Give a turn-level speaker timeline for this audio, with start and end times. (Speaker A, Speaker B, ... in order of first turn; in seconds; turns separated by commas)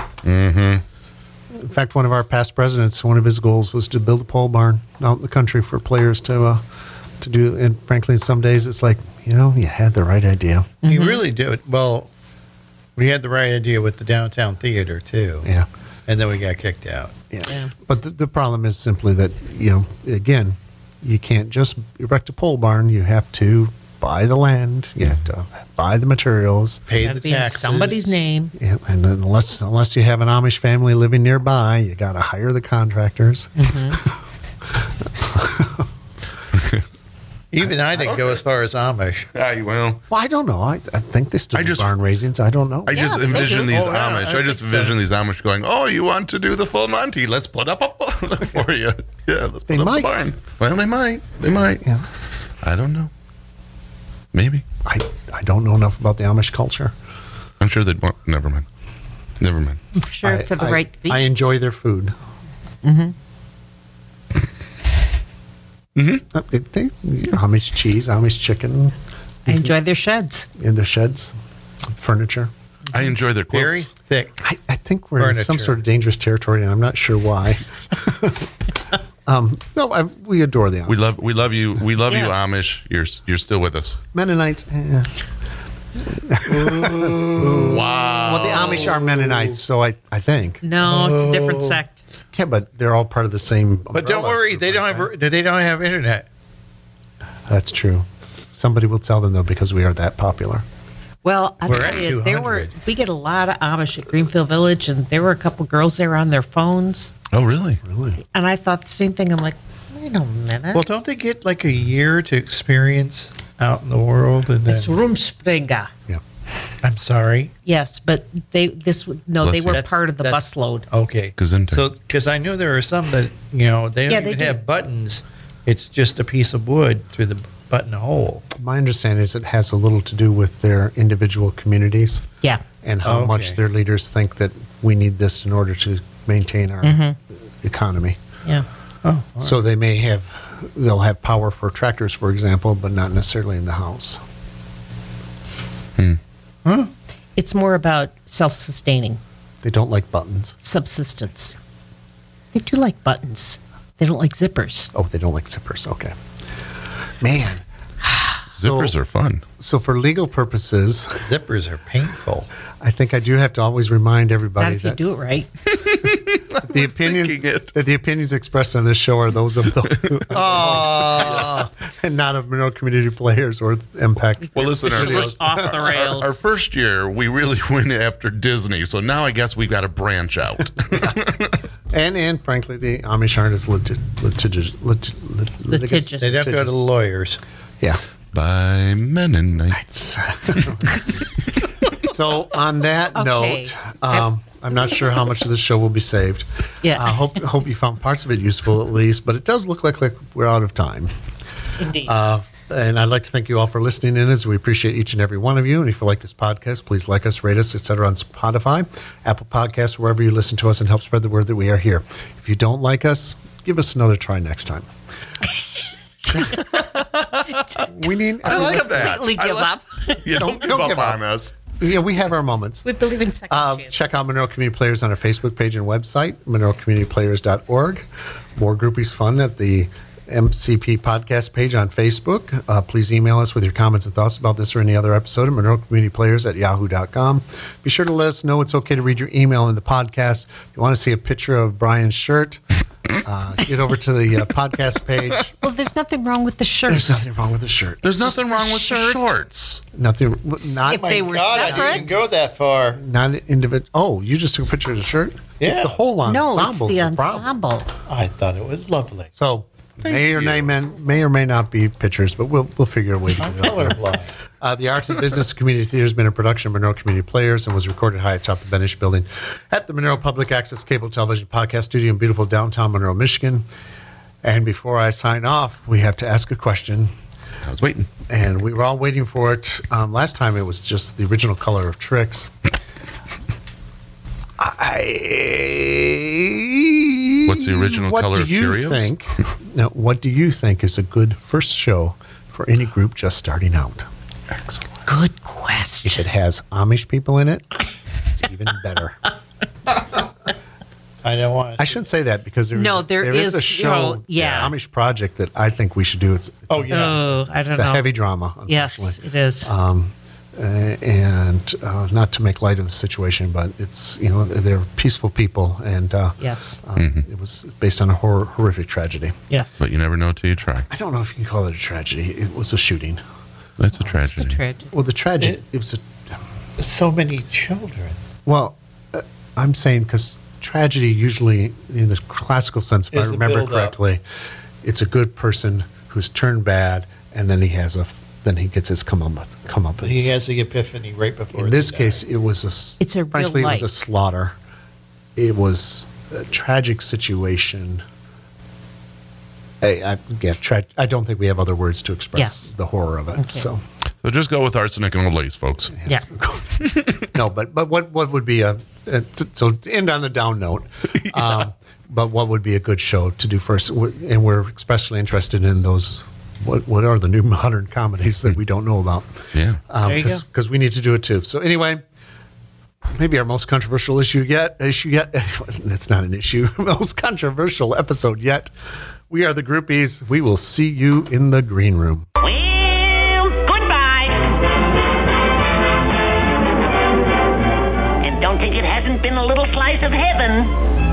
Speaker A: 0.2-0.8, Speaker B: 1.5-6.6, Speaker B: 7.2-10.8, Speaker C: 10.8-11.2, Speaker D: 10.9-12.1, Speaker D: 13.0-15.5, Speaker D: 16.1-17.1, Speaker B: 17.3-26.9, Speaker D: 26.9-28.2, Speaker C: 27.0-28.5, Speaker B: 28.6-34.1, Speaker C: 33.6-34.0, Speaker B: 34.8-35.9, Speaker A: 36.5-36.8, Speaker D: 37.5-39.3, Speaker A: 37.9-38.4, Speaker A: 39.4-40.0, Speaker B: 40.1-43.5, Speaker A: 41.5-41.9, Speaker A: 42.9-52.0, Speaker C: 42.9-43.8, Speaker D: 43.5-45.0, Speaker B: 49.7-50.2, Speaker A: 52.6-53.1, Speaker A: 54.3-54.6, Speaker B: 54.9-56.9, Speaker A: 57.6-58.6, Speaker A: 59.4-59.8, Speaker C: 59.9-61.3, Speaker B: 60.2-62.1, Speaker C: 62.8-63.1, Speaker A: 66.0-66.2, Speaker B: 66.3-69.0, Speaker B: 69.5-69.7, Speaker C: 69.5-70.5, Speaker B: 70.6-71.3, Speaker B: 71.9-72.5, Speaker A: 72.9-73.9, Speaker D: 73.5-74.4, Speaker B: 74.4-78.5, Speaker D: 75.2-75.8, Speaker B: 79.3-81.0, Speaker A: 80.9-84.0, Speaker B: 84.1-85.2, Speaker B: 86.1-90.6, Speaker D: 86.5-88.2, Speaker A: 87.2-89.1, Speaker C: 90.6-92.0, Speaker D: 90.8-91.4, Speaker B: 92.3-95.1, Speaker D: 93.9-96.3, Speaker B: 97.5-100.7, Speaker C: 101.2-107.1, Speaker D: 101.7-102.7, Speaker A: 107.3-107.8, Speaker B: 107.8-108.2, Speaker C: 108.3-110.8, Speaker D: 110.7-115.0, Speaker C: 114.7-115.9, Speaker D: 116.8-117.5, Speaker C: 117.7-120.9, Speaker A: 119.4-119.8, Speaker D: 119.7-128.5, Speaker A: 121.4-121.9, Speaker C: 124.1-124.6, Speaker B: 128.6-132.3, Speaker B: 132.8-137.1, Speaker D: 133.1-133.6, Speaker C: 136.8-137.2, Speaker B: 137.6-138.2, Speaker D: 139.0-139.6, Speaker B: 139.4-144.2, Speaker D: 146.7-146.9, Speaker C: 147.4-149.2, Speaker B: 149.6-150.6, Speaker C: 150.6-151.6, Speaker C: 152.5-154.9, Speaker B: 154.9-156.2, Speaker B: 157.2-157.6, Speaker A: 158.5-159.4, Speaker B: 158.6-158.9, Speaker B: 159.6-161.3, Speaker D: 161.2-162.5, Speaker B: 162.8-165.0, Speaker C: 164.6-165.5, Speaker A: 165.7-167.7, Speaker B: 166.6-175.7, Speaker A: 169.8-170.2, Speaker D: 170.3-171.7, Speaker A: 171.1-171.5, Speaker C: 174.5-176.4, Speaker A: 174.6-181.5, Speaker B: 181.9-186.9, Speaker C: 185.7-186.4, Speaker D: 186.2-187.4, Speaker A: 188.3-189.8, Speaker B: 189.7-191.1, Speaker B: 191.9-201.1, Speaker C: 193.1-194.2, Speaker C: 196.8-197.4, Speaker C: 201.8-202.1, Speaker B: 202.0-214.9, Speaker A: 216.4-217.8, Speaker B: 217.8-219.2, Speaker A: 218.4-219.7, Speaker C: 218.4-220.9, Speaker A: 220.2-221.6, Speaker B: 220.5-222.9, Speaker C: 222.8-224.1, Speaker B: 223.5-242.6, Speaker B: 243.2-245.6, Speaker C: 245.6-247.2, Speaker B: 246.9-248.2, Speaker C: 248.0-249.3, Speaker A: 248.0-249.8, Speaker B: 249.9-252.2, Speaker C: 250.6-252.2, Speaker D: 251.1-253.0, Speaker B: 253.0-257.5, Speaker D: 255.6-255.9, Speaker C: 256.3-257.9, Speaker D: 258.1-259.3, Speaker B: 259.4-264.0, Speaker A: 260.3-260.7, Speaker D: 263.4-264.3, Speaker B: 264.6-273.6, Speaker B: 274.4-277.1, Speaker A: 277.7-278.1, Speaker B: 278.3-282.7, Speaker B: 284.6-294.1, Speaker A: 287.4-289.1, Speaker C: 295.1-296.2, Speaker B: 296.0-299.2, Speaker D: 301.2-302.0, Speaker B: 301.8-307.1, Speaker C: 302.8-304.7, Speaker D: 306.7-307.3, Speaker C: 306.9-308.1, Speaker B: 307.7-319.4, Speaker C: 308.7-309.7, Speaker C: 316.4-316.8, Speaker A: 317.0-317.2, Speaker C: 319.5-319.8, Speaker A: 319.8-320.9, Speaker B: 320.9-323.2, Speaker A: 323.8-324.6, Speaker C: 324.2-324.9, Speaker B: 324.9-326.1, Speaker D: 326.8-328.2, Speaker B: 328.5-334.2, Speaker D: 333.1-333.9, Speaker B: 334.8-340.4, Speaker D: 340.0-342.2, Speaker B: 341.5-344.6, Speaker C: 343.0-343.9, Speaker B: 345.4-348.0, Speaker B: 349.8-353.8, Speaker C: 352.4-352.7, Speaker C: 353.4-353.7, Speaker A: 354.2-356.0, Speaker B: 356.0-372.0, Speaker A: 369.5-369.8, Speaker C: 370.0-370.4, Speaker B: 373.1-378.7, Speaker B: 379.3-382.3, Speaker E: 382.4-384.6, Speaker E: 388.2-390.8